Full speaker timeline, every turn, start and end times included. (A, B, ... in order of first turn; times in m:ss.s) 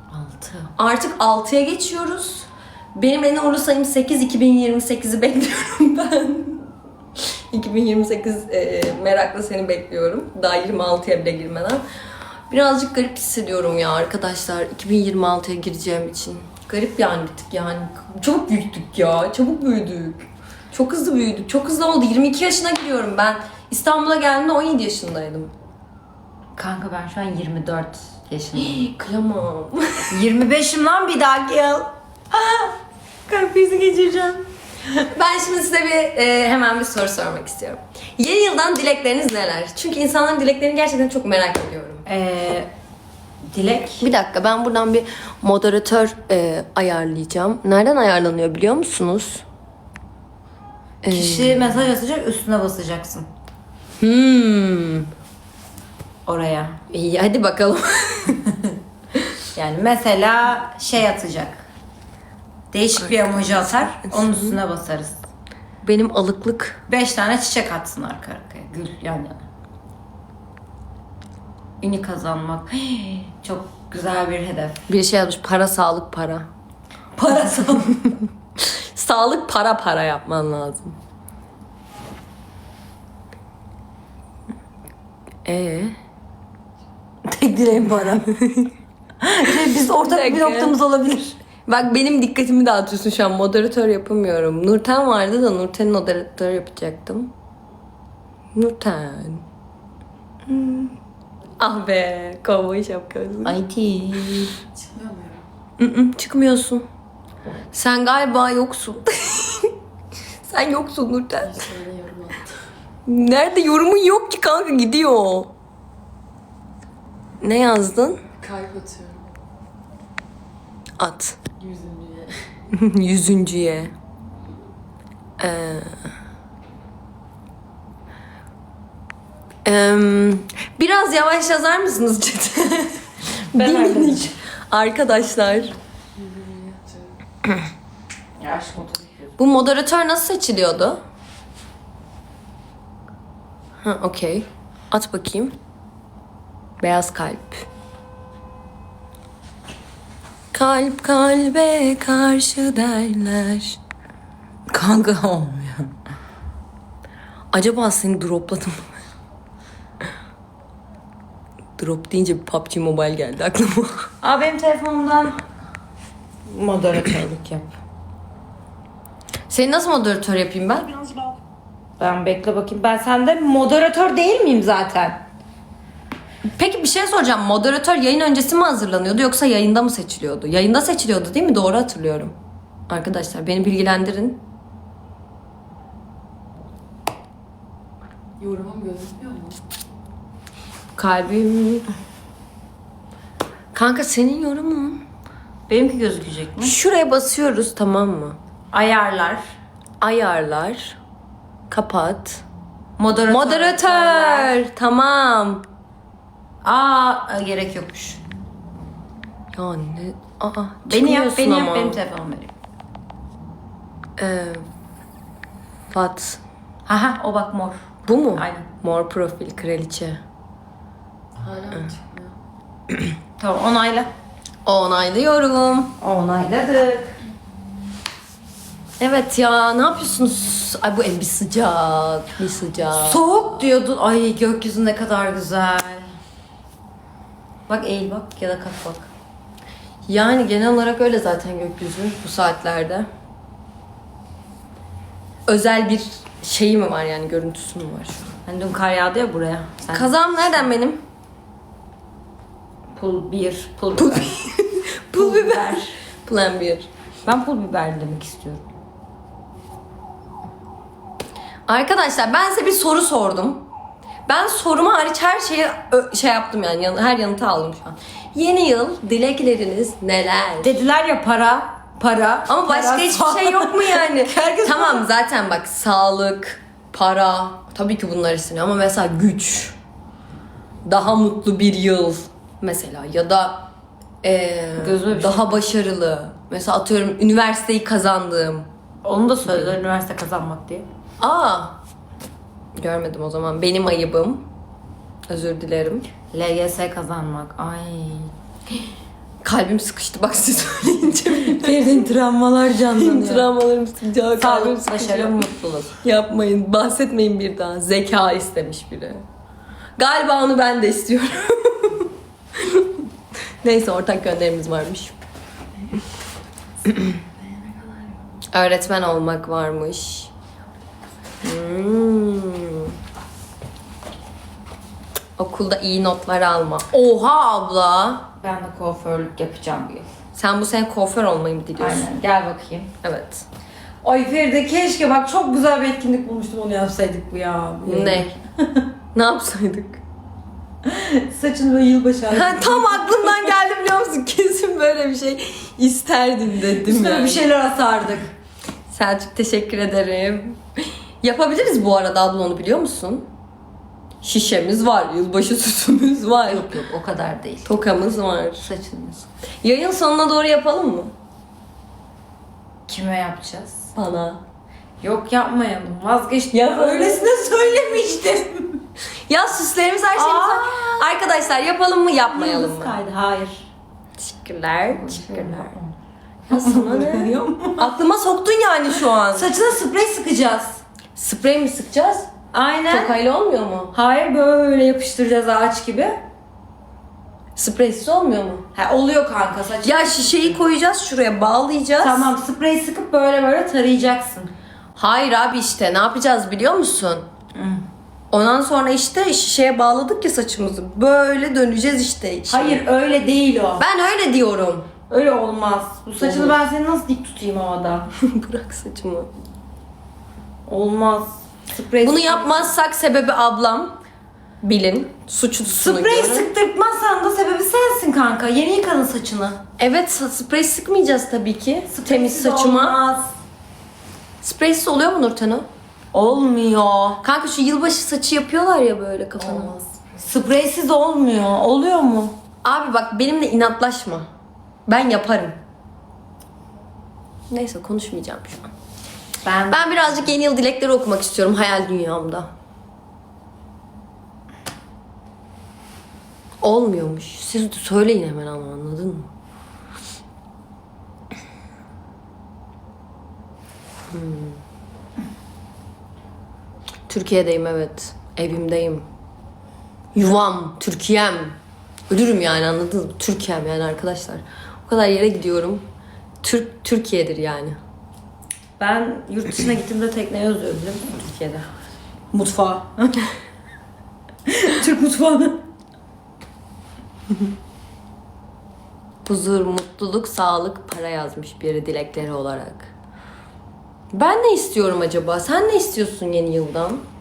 0:00.1-0:00.7 A
0:00.8-0:06.6 B
0:07.5-0:11.8 B
0:12.5-0:25.5 B
0:26.6-0:28.9 A
0:28.6-0:30.2 B
0:30.1-0:32.7 A
0:33.3-0:34.4 A
0:35.0-0:42.0 B
0:42.0-0:42.7 A
0:43.5-0:44.0 A
0:44.0-0:49.4 B
0:51.0-0:51.9 B
0:51.1-0:53.3 A
0:54.0-0:55.1 B
0:56.2-0:56.8 A
0:56.9-0:58.6 B
0:59.6-1:01.6 A
1:02.7-1:05.2 A
1:03.1-1:04.6 B
1:05.8-1:06.8 B
1:06.9-1:09.4 A
1:11.8-1:14.8 A
1:14.9-1:16.5 B
1:17.2-1:18.2 A
1:18.6-1:21.0 B
1:25.4-1:26.0 B
1:27.2-1:28.3 A
1:29.2-1:31.4 A
1:29.8-1:30.7 B
1:31.7-1:37.3 B
1:38.6-1:39.4 B
1:40.5-1:40.9 B
1:41.6-1:43.6 B
1:43.4-1:44.5 A
1:45.8-1:46.9 B
1:47.7-1:49.7 B
1:50.4-1:52.4 B
1:53.0-1:55.5 B
1:57.4-1:58.2 B
1:58.5-1:59.2 C
2:01.0-2:01.4 B
2:01.6-2:02.3 C
2:02.7-2:03.9 B
2:05.4-2:05.9 B
2:09.6-2:15.8 B
2:13.5-2:14.3 A
2:18.4-2:19.4 A
2:19.4-2:21.0 B
2:23.8-2:25.6 B
2:26.8-2:27.7 B
2:30.5-2:33.8 B
2:34.7-2:35.9 A
2:37.5-2:39.0 B
2:41.8-2:44.1 B
2:44.2-2:45.4 A
2:46.5-2:47.8 A
2:49.5-2:51.2 B
2:52.0-2:55.2 A
2:56.5-3:02.3 B
3:02.9-3:04.4 B
3:08.4-3:09.5 C
3:11.0-3:11.9 B
3:13.7-3:15.0 B
3:15.7-3:16.7 A
3:16.6-3:18.4 B
3:18.7-3:19.4 A
3:20.0-3:21.0 B
3:21.7-3:22.4 B
3:23.0-3:24.6 A
3:23.3-3:25.6 B
3:26.6-3:28.2 A
3:29.5-3:32.0 B
3:30.9-3:32.5 A
3:34.2-3:34.6 B
3:35.9-3:36.4 B
3:36.9-3:38.7 A
3:38.1-3:40.2 B
3:41.6-3:42.0 B
3:43.4-3:44.1 A
3:44.7-3:45.9 B
3:46.0-3:47.2 A
3:49.0-3:53.2 B
3:52.9-3:56.1 A
3:57.7-3:59.1 A
4:00.1-4:03.1 B
4:05.5-4:08.3 B
4:08.5-4:10.1 A
4:09.9-4:11.0 B
4:13.0-4:14.3 A
4:14.0-4:16.9 B
4:15.2-4:15.9 A
4:17.2-4:18.6 A
4:21.7-4:23.6 B
4:24.3-4:30.7 B
4:30.6-4:35.1 A
4:32.5-4:39.8 B
4:40.8-4:43.7 B
4:44.2-4:48.7 B
4:44.8-4:45.6 A
4:49.0-4:50.8 A
4:51.2-4:51.8 B
4:52.8-4:54.4 B
4:55.3-4:56.1 B
4:56.3-4:58.3 A
4:59.4-5:02.1 B
5:01.3-5:03.5 A
5:02.9-5:05.5 B
5:04.4-5:05.9 A
5:06.0-5:09.2 B
5:10.0-5:12.9 B
5:13.6-5:15.1 B
5:18.5-5:20.3 B
5:21.4-5:22.9 B
5:25.4-5:28.3 B
5:28.4-5:30.1 A
5:30.3-5:32.1 B
5:31.8-5:32.9 A
5:33.0-5:33.4 B
5:34.0-5:38.8 A
5:37.8-5:38.3 B
5:39.1-5:40.0 B
5:40.8-5:43.5 A
5:42.3-5:47.4 B
5:46.8-5:48.3 A
5:48.9-5:53.3 B
5:54.2-5:56.7 B
5:56.5-5:57.8 A
5:57.6-5:58.7 B
5:58.6-5:59.3 A
5:59.6-6:01.1 B
6:02.9-6:03.9 A
6:03.9-6:04.4 B
6:05.0-6:08.8 A
6:06.5-6:08.1 B
6:09.3-6:13.0 B
6:10.1-6:11.1 A
6:12.3-6:13.6 A
6:14.2-6:15.7 B
6:14.9-6:15.9 A
6:16.5-6:19.5 B
6:16.5-6:17.9 A
6:19.3-6:20.8 A
6:21.2-6:22.3 B
6:22.5-6:23.1 A
6:22.9-6:23.9 B
6:23.9-6:26.2 A
6:27.6-6:28.6 B
6:28.7-6:30.6 A
6:29.8-6:32.3 B
6:32.0-6:34.5 A
6:35.0-6:37.2 B
6:37.6-6:37.8 A
6:38.3-6:42.8 B
6:42.5-6:43.8 A
6:43.8-6:44.9 B
6:45.1-6:48.1 A
6:46.2-6:46.6 B
6:48.2-6:49.3 B
6:50.7-6:52.7 A
6:52.0-6:54.0 B
6:54.6-6:56.5 B
6:55.7-6:59.6 A
6:59.8-7:03.0 B
7:01.9-7:03.3 A
7:04.4-7:05.6 B
7:06.1-7:07.2 A
7:07.2-7:10.0 B
7:10.2-7:12.4 A
7:12.6-7:14.3 B
7:14.9-7:15.6 B
7:17.5-7:18.7 B
7:19.4-7:20.2 A
7:19.7-7:22.5 B
7:26.6-7:29.3 B
7:34.1-7:34.6 B
7:37.1-7:39.1 B
7:40.1-7:41.5 B
7:42.1-7:45.8 B
7:46.4-7:47.8 B
7:48.8-7:51.6 A
7:52.3-7:53.3 A
7:54.5-7:55.6 A
7:59.2-8:02.9 B
8:04.1-8:07.0 B